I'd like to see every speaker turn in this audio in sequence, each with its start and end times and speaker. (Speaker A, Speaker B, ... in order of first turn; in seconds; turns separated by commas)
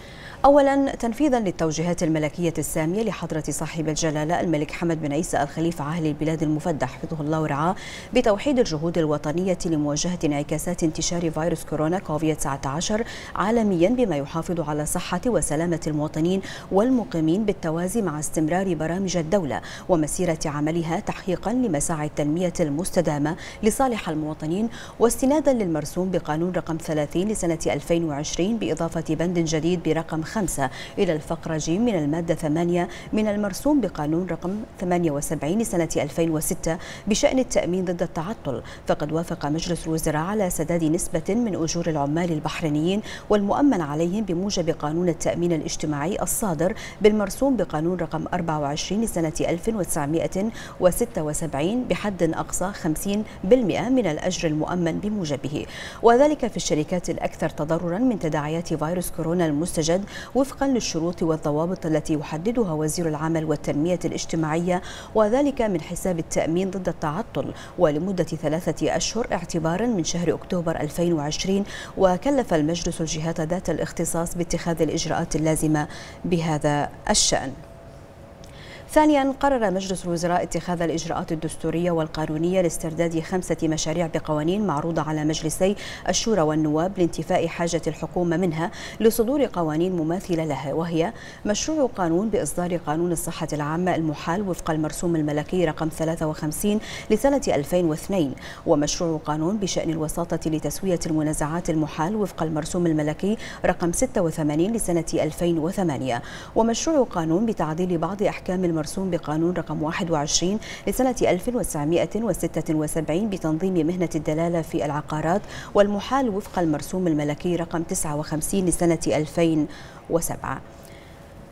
Speaker A: 0.5-77.6, Speaker A: 78.9-120.6